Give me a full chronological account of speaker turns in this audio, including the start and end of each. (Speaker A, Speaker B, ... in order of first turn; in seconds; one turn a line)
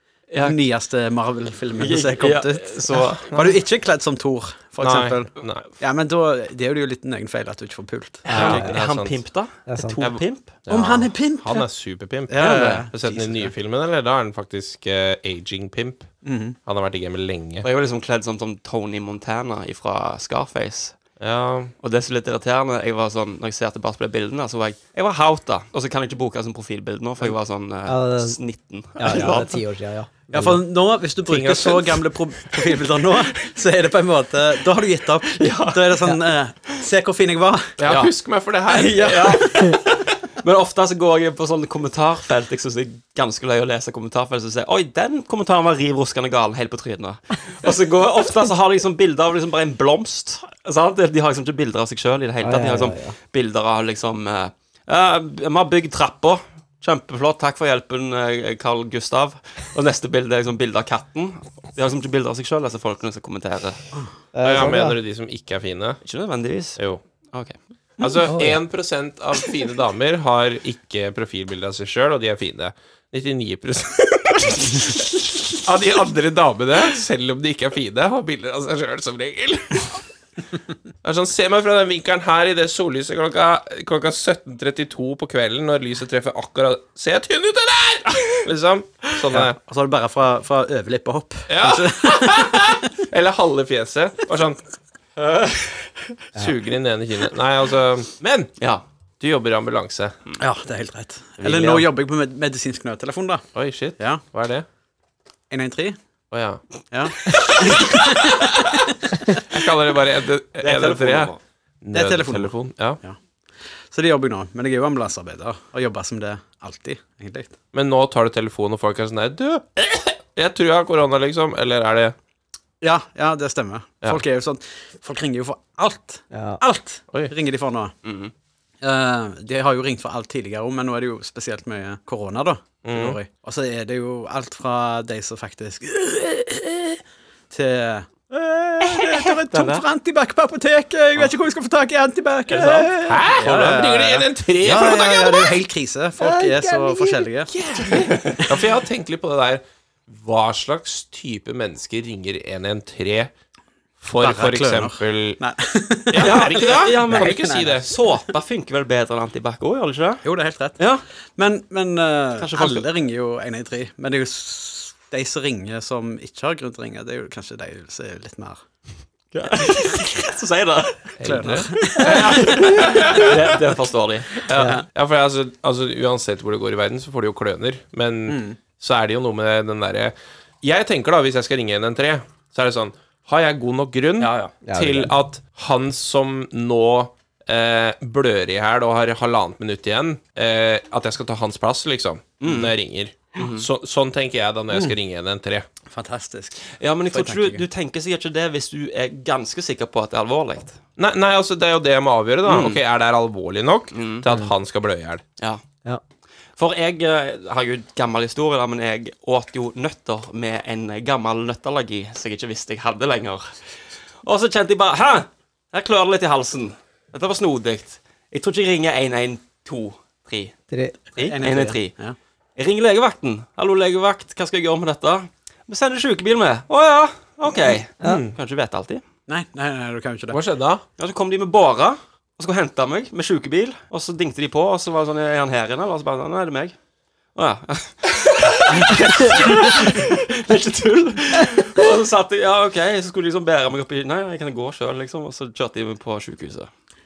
Speaker A: 0.3-0.6
Speaker B: 0.4-8.6
Speaker A: 1.8-3.4
Speaker C: 4.8-5.6
Speaker A: 8.2-10.6
Speaker D: 8.3-8.8
Speaker C: 8.3-9.2
Speaker D: 9.7-10.0
Speaker C: 10.0-16.1
Speaker B: 10.7-11.7
Speaker B: 12.3-13.5
Speaker A: 12.5-12.8
Speaker B: 16.2-16.6
Speaker C: 16.6-17.7
Speaker A: 17.6-21.0
Speaker C: 21.2-21.7
Speaker A: 21.8-29.6
Speaker D: 27.9-28.4
Speaker D: 29.0-30.6
Speaker B: 30.3-37.7
Speaker C: 31.2-32.0
Speaker A: 35.3-36.1
Speaker C: 37.8-39.8
Speaker A: 37.9-38.1
Speaker A: 38.7-63.8
Speaker B: 38.7-39.4
Speaker D: 52.4-53.1
Speaker D: 64.3-65.0
Speaker C: 64.4-66.0
Speaker A: 66.0-66.8
Speaker C: 68.0-75.0
Speaker D: 68.3-68.6
Speaker C: 75.6-80.0
Speaker C: 81.0-89.6
Speaker B: 89.3-92.8
Speaker C: 91.5-94.6
Speaker A: 95.2-95.9
Speaker C: 96.3-98.5
Speaker C: 99.2-100.2
Speaker B: 100.4-103.5
Speaker C: 101.4-101.9
Speaker C: 103.5-104.7
Speaker B: 105.5-106.0
Speaker C: 106.3-106.6
Speaker B: 106.9-108.9
Speaker C: 107.6-108.7
Speaker C: 109.4-113.0
Speaker A: 110.6-111.4
Speaker B: 111.9-113.2
Speaker B: 113.9-117.5
Speaker C: 117.7-122.2
Speaker B: 122.8-128.0
Speaker D: 126.3-126.6
Speaker A: 128.1-128.3
Speaker B: 128.8-147.5
Speaker C: 132.8-133.2
Speaker A: 138.8-139.8
Speaker A: 142.5-142.9
Speaker C: 143.0-145.6
Speaker D: 146.2-147.3
Speaker C: 147.5-153.3
Speaker B: 148.1-148.6
Speaker C: 154.0-155.4
Speaker B: 154.2-157.9
Speaker C: 156.1-157.9
Speaker A: 156.2-160.2
Speaker B: 160.2-160.8
Speaker A: 160.8-161.0
Speaker B: 161.4-168.6
Speaker A: 162.4-162.9
Speaker A: 169.3-171.2
Speaker C: 171.2-173.6
Speaker B: 171.2-173.1
Speaker A: 171.8-174.5
Speaker C: 174.5-195.7
Speaker B: 174.6-174.8
Speaker B: 178.3-178.6
Speaker A: 184.2-184.5
Speaker D: 184.7-185.1
Speaker A: 192.4-192.7
Speaker A: 193.4-193.7
Speaker B: 195.9-197.7
Speaker A: 196.8-200.8
Speaker C: 201.0-205.2
Speaker A: 202.5-202.8
Speaker A: 203.9-204.3
Speaker A: 206.6-213.6
Speaker A: 214.2-220.6
Speaker A: 221.2-221.9
Speaker B: 221.2-222.2
Speaker A: 222.6-229.0
Speaker C: 228.0-228.3
Speaker B: 229.3-230.4
Speaker C: 230.3-230.8
Speaker A: 231.0-236.8
Speaker A: 237.3-246.7